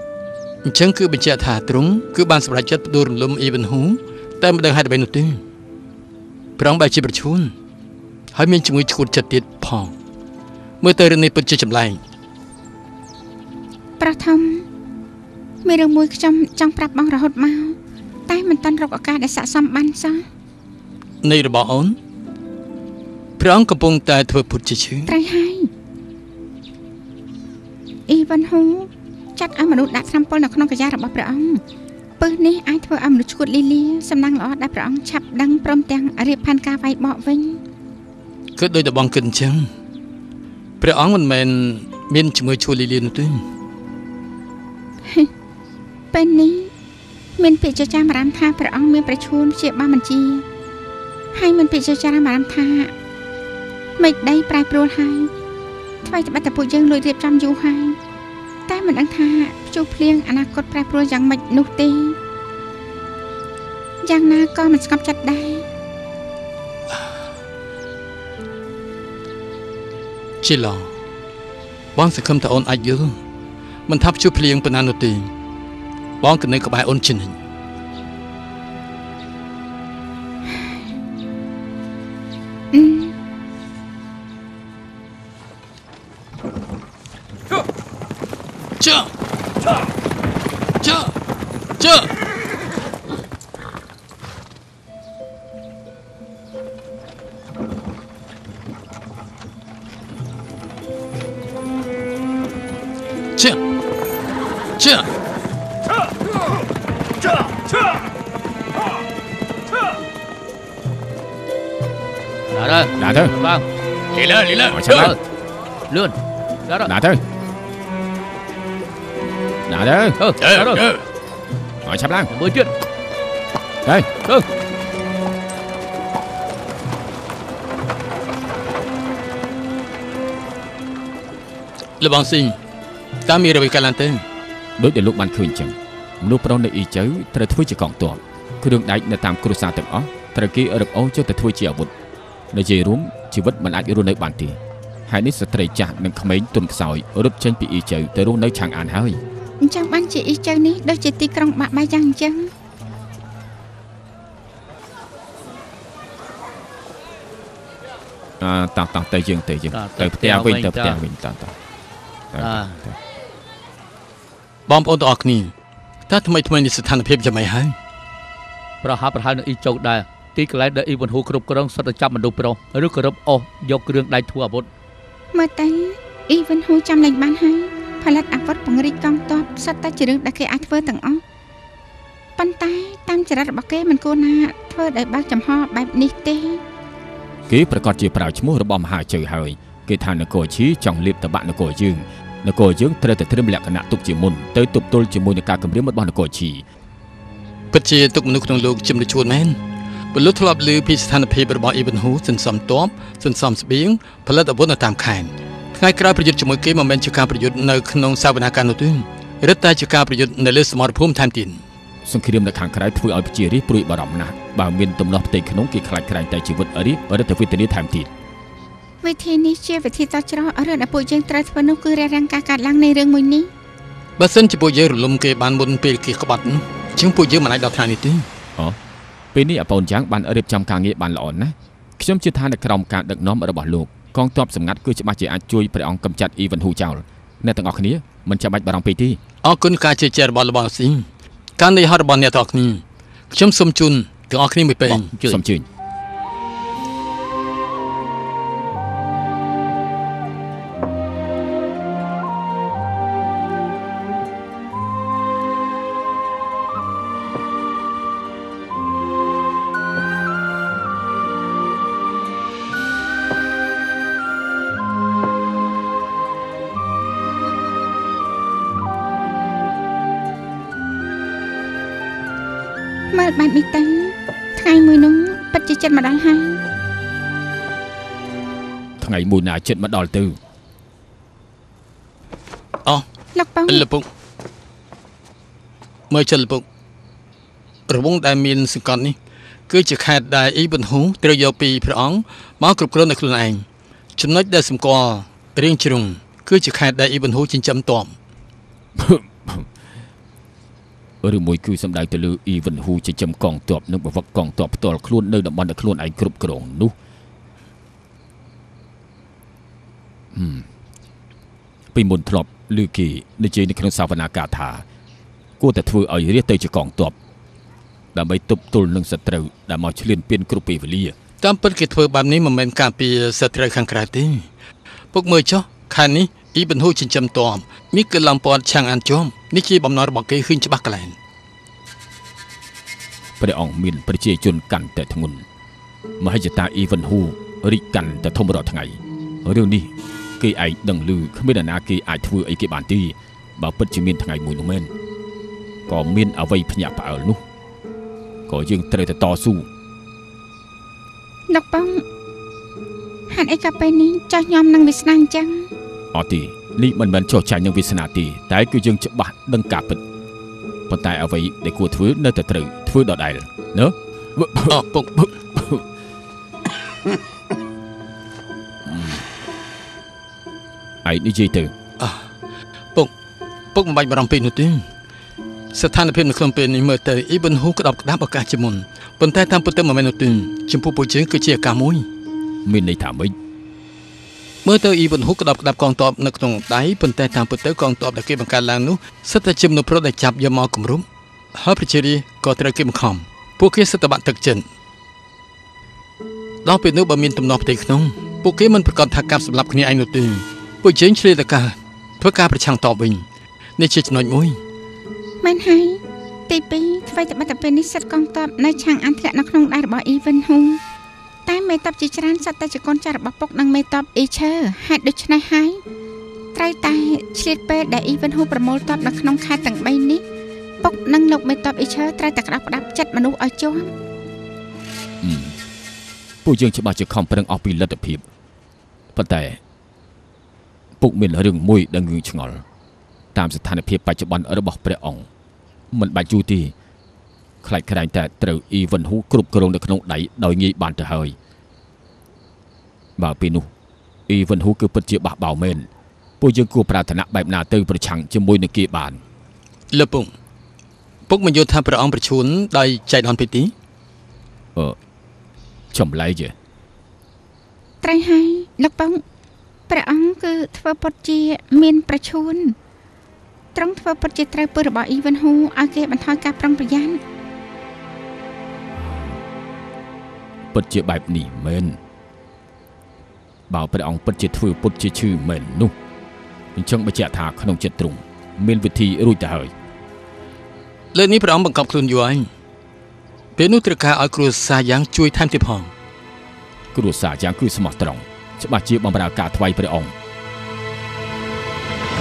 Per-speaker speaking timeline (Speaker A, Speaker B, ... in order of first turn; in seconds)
Speaker A: 0.6-5.4, 6.6-7.5, 8.3-9.9, 10.8-12.0, 21.2-22.0, 23.4-25.1, 38.6-39.7, 40.8-43.4, 70.4-70.9, 72.0-73.2, 73.9-75.3, 76.2-77.3, 88.8-89.1, 90.8-91.1, 91.8-92.1, 104.8-105.1, 114.1-115.1, 120.4-121.0, 132.0-132.6, 133.2-134.2, 164.7-165.5, 166.1-167.8, 197.7-199.6, 200.1-211.6, 224.2-228.3, 239.4-245.0, 283.7-284.1, 286.1-286.6, 287.9-289.2, 289.7-293.6, 294.2-298.1, 321.4-324.4, 325.1-331.1, 364.7-365.3, 372.0-372.2, 373.7-374.9, 375.7-382.1, 384.6-394.6, 396.6-403.2, 403.8-404.6, 449.9-450.3, 451.3-453.7, 481.1-482.5, 483.6-485.9
Speaker B: 14.0-14.7, 15.6-17.8, 18.3-20.2, 25.1-25.7, 28.1-31.6, 32.2-37.6, 46.1-46.7, 47.4-50.4, 51.3-52.9, 54.0-55.3, 56.0-58.0, 58.7-62.2, 64.0-65.7, 82.7-83.1, 149.6-152.5, 175.3-181.2, 182.4-186.6, 219.0-223.5, 273.1-276.6, 283.3-283.9, 351.5-352.0, 353.3-355.7, 405.4-410.8, 411.4-415.8, 416.5-420.2, 420.8-423.9, 458.0-459.2, 459.9-462.8, 463.7-467.2
Speaker C: 112.5-113.6, 114.9-115.2, 115.9-116.9, 120.2-120.9, 122.3-122.7, 159.7-161.0, 162.4-162.8, 168.8-174.7, 244.9-245.4
Speaker D: 113.0-113.3, 114.7-115.1, 116.8-117.2, 119.7-120.2, 121.8-122.3, 123.8-124.1, 134.8-141.9, 142.5-149.2, 158.4-161.5, 162.3-163.0, 187.5-196.6, 212.0-218.1, 229.3-239.2, 245.2-245.7, 279.0-280.4, 299.0-299.7, 301.2-306.9, 310.3-310.6, 311.9-314.8, 315.6-317.1, 318.1-321.1, 333.4-335.4, 336.2-344.9, 345.9-347.4, 348.5-349.7, 356.1-360.0, 360.9-364.8, 365.5-365.8, 368.9-369.2, 371.0-371.7, 382.6-383.3, 425.2-425.6, 426.4-428.2, 429.1-429.6, 431.0-432.6, 433.3-435.3, 435.9-436.7, 437.6-441.4, 443.2-443.7, 444.3-445.9, 446.4-449.2, 455.9-456.5, 468.9-469.4, 470.7-472.0, 473.7-475.9, 476.8-479.7, 486.9-490.1